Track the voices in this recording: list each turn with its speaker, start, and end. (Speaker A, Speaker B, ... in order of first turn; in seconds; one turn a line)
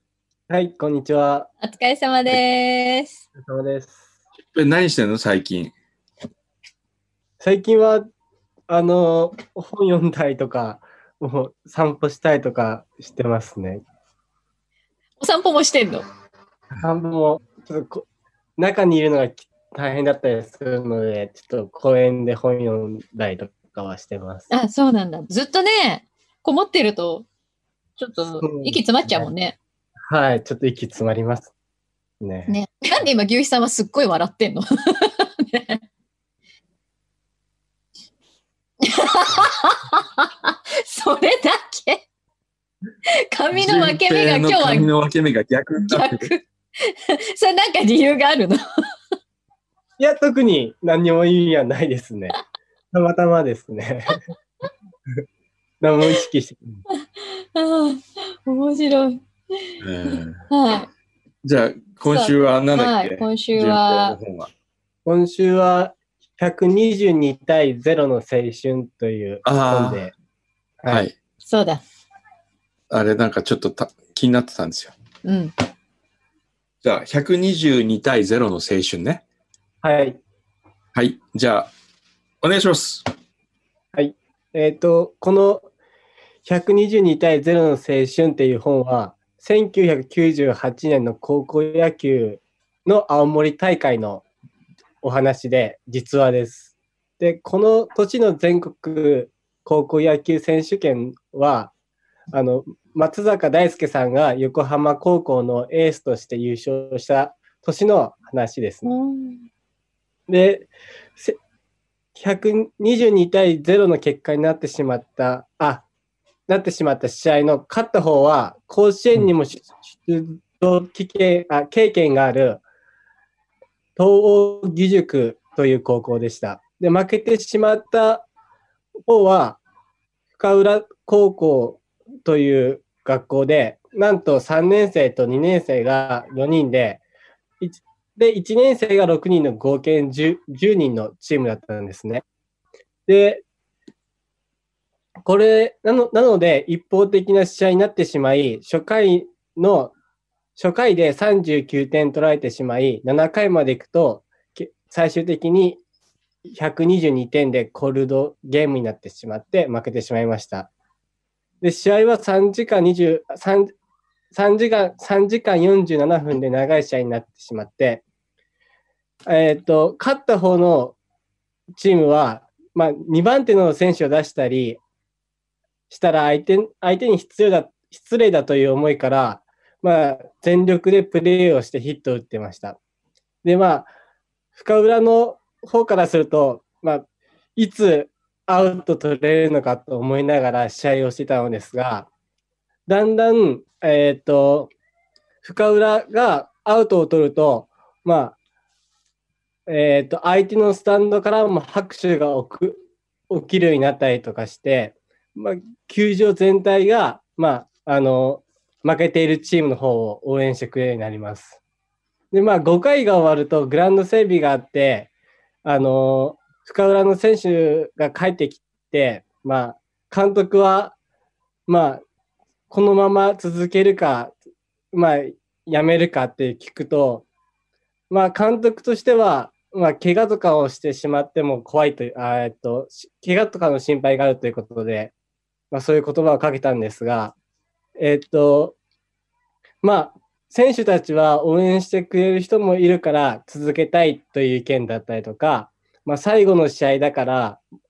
Speaker A: 0.5-1.5
Speaker B: 1.6-3.2
Speaker A: 3.4-4.0
Speaker C: 4.5-5.7
Speaker A: 7.4-8.1
Speaker A: 8.7-13.8
Speaker B: 15.2-16.1
Speaker A: 16.8-18.1
Speaker A: 18.6-24.5
Speaker B: 24.5-27.3
Speaker B: 28.0-29.6
Speaker A: 28.4-29.3
Speaker A: 30.1-31.5
Speaker A: 32.2-32.5
Speaker B: 32.5-35.8
Speaker B: 38.8-42.0
Speaker B: 43.2-44.9
Speaker C: 43.5-46.3
Speaker B: 45.9-48.7
Speaker A: 50.0-52.4
Speaker A: 52.9-54.2
Speaker A: 55.8-56.8
Speaker B: 56.9-60.9
Speaker C: 59.8-60.4
Speaker C: 61.4-64.5
Speaker B: 62.1-64.2
Speaker A: 65.1-70.1
Speaker C: 69.5-70.0
Speaker A: 70.8-71.1
Speaker B: 71.5-71.8
Speaker C: 72.9-74.9
Speaker B: 75.2-75.5
Speaker C: 76.8-79.2
Speaker A: 79.8-80.2
Speaker C: 81.0-81.7
Speaker C: 82.4-83.1
Speaker A: 83.9-85.7
Speaker A: 86.5-94.2
Speaker A: 95.0-101.7
Speaker A: 102.3-108.9
Speaker B: 108.8-109.4
Speaker A: 110.3-111.4
Speaker A: 112.2-115.8
Speaker A: 116.5-122.6
Speaker A: 124.0-128.3
Speaker A: 129.1-129.6
Speaker A: 130.4-137.0
Speaker A: 137.6-142.2
Speaker A: 143.1-143.4
Speaker A: 145.2-149.9
Speaker A: 150.6-155.8
Speaker A: 156.5-160.7
Speaker A: 161.6-163.7
Speaker A: 164.3-168.0
Speaker A: 169.3-171.0
Speaker A: 171.7-174.8
Speaker A: 175.9-182.8
Speaker A: 183.4-183.9
Speaker A: 184.6-192.1
Speaker A: 192.9-194.7
Speaker A: 195.4-198.4
Speaker A: 199.7-211.6
Speaker A: 212.3-215.1
Speaker A: 215.6-221.0
Speaker A: 221.7-222.0
Speaker A: 222.7-224.4
Speaker A: 224.9-227.3
Speaker A: 228.1-235.1
Speaker A: 235.7-237.3
Speaker A: 238.0-238.8
Speaker A: 239.8-247.6